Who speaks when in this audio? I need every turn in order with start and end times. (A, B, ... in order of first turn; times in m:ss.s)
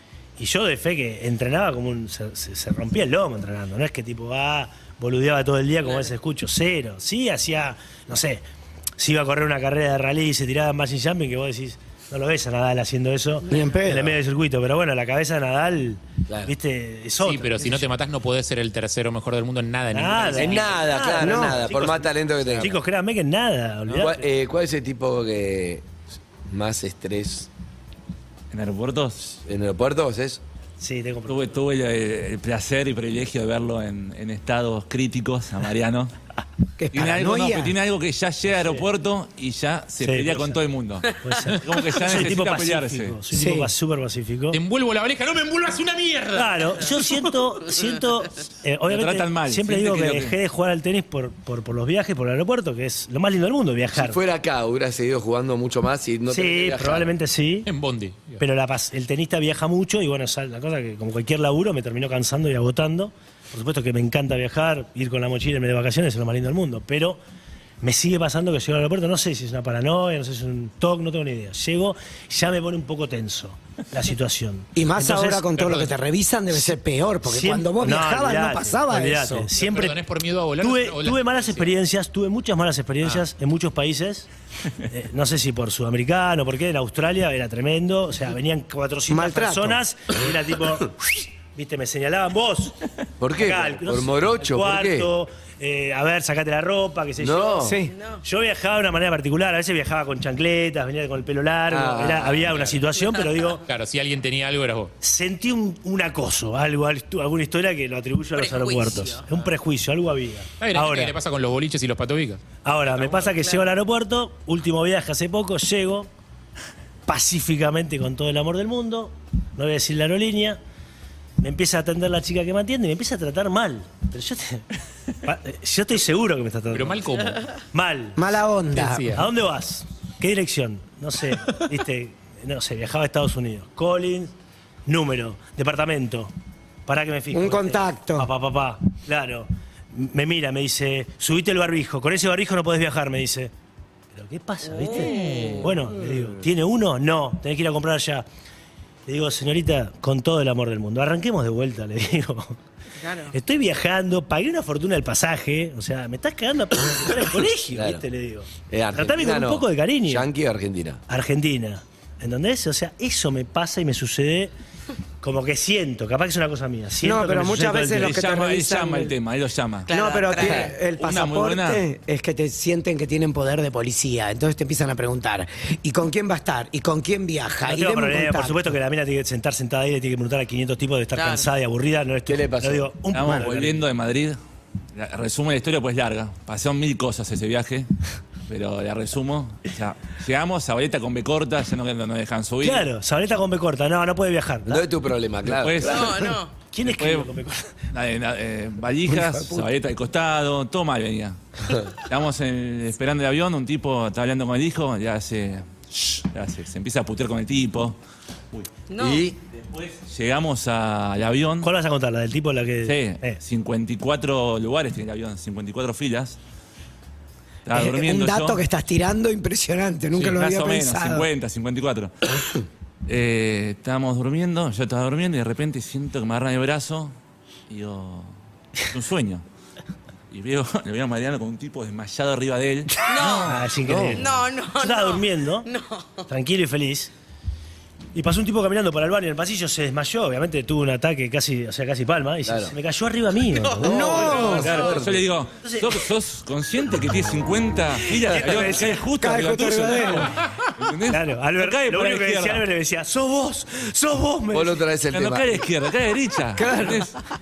0:00.4-0:08.4 A
0:09.0-0:17.9 A
0:13.5-0:14.1 B
0:16.3-0:16.5 C
0:17.2-0:20.9 D
0:19.9-0:24.2 A
0:20.3-0:22.8 C
0:21.2-0:21.6 B
0:23.9-0:25.9 C
0:26.4-0:27.5 C
0:28.5-0:29.2 E
0:29.3-0:30.4 C
0:30.8-0:31.5 A
0:31.3-0:36.1 E
0:36.8-0:37.7 B
0:36.9-0:43.2 E
0:38.5-0:38.9 A
0:40.0-0:40.6 A
0:41.2-0:44.6 A
0:43.3-0:43.7 B
0:44.5-0:47.3 D
0:46.3-0:54.2 A
0:48.9-0:50.4 E
0:53.9-0:57.1 C
0:56.3-0:57.7 A
0:57.7-0:58.4 D
0:58.4-1:07.2 A
1:07.8-1:15.5 A
1:14.8-1:19.5 B
1:15.6-1:15.9 D
1:17.2-1:20.0 A
1:19.6-1:21.7 D
1:20.6-1:24.3 A
1:24.9-1:32.8 A
1:29.1-1:29.8 B
1:33.2-1:35.1 C
1:33.3-1:43.6 A
1:37.2-1:37.8 C
1:37.6-1:37.9 B
1:37.9-1:38.2 F
1:41.7-1:42.7 C
1:43.6-1:44.9 D
1:45.0-1:51.1 A
1:48.3-1:49.3 F
1:50.6-1:52.4 D
1:52.6-1:56.1 A
1:53.1-1:53.6 F
1:57.1-2:00.6 A
2:01.4-2:04.6 A
2:05.2-2:07.1 A
2:06.7-2:07.6 D
2:07.7-2:08.2 A
2:08.2-2:09.1 B
2:08.7-2:09.2 D
2:09.1-2:14.3 A
2:14.9-2:16.3 A
2:16.9-2:23.5 A
2:17.3-2:18.3 B
2:24.1-2:28.2 A
2:24.8-2:25.6 F
2:29.1-2:32.6 A
2:33.0-2:33.3 F
2:33.3-2:40.3 A
2:37.7-2:38.0 C
2:38.7-2:41.0 C
2:41.1-2:44.5 A
2:45.2-2:48.2 A
2:47.0-2:49.1 B
2:48.0-2:49.9 E
2:49.9-2:50.8 F
2:49.9-2:58.7 B
2:50.4-2:50.7 C
2:50.9-2:51.8 E
2:57.6-3:03.8 A
3:01.1-3:01.5 F
3:02.3-3:02.9 C
3:03.1-3:04.4 E
3:04.9-3:07.9 E
3:08.5-3:12.9 E
3:12.6-3:14.8 A
3:14.7-3:16.2 C
3:15.4-3:16.2 E
3:15.8-3:16.5 F
3:16.7-3:17.7 A
3:16.8-3:17.3 E
3:17.9-3:28.0 E
3:19.1-3:19.7 B
3:28.9-3:29.3 F
3:29.0-3:29.4 C
3:29.5-3:31.7 E
3:31.6-3:33.4 A
3:32.8-3:36.4 E
3:37.6-3:38.6 E
3:37.7-3:41.3 B
3:40.1-3:42.3 E
3:43.1-3:47.1 E
3:47.7-3:48.3 E
3:48.9-3:49.4 E
3:50.3-3:53.5 E
3:53.1-3:53.6 F
3:53.4-3:55.7 A
3:53.8-3:54.3 C
3:54.2-3:56.2 F
3:56.3-3:57.1 A
3:58.1-4:04.5 A
4:02.4-4:02.7 C
4:03.6-4:04.9 F
4:03.8-4:04.7 B
4:03.8-4:05.2 C
4:04.3-4:12.6 E
4:05.6-4:05.9 A
4:08.3-4:10.3 B
4:08.4-4:08.8 A
4:11.1-4:14.8 A
4:14.5-4:15.6 C
4:15.1-4:17.1 E
4:16.6-4:17.0 B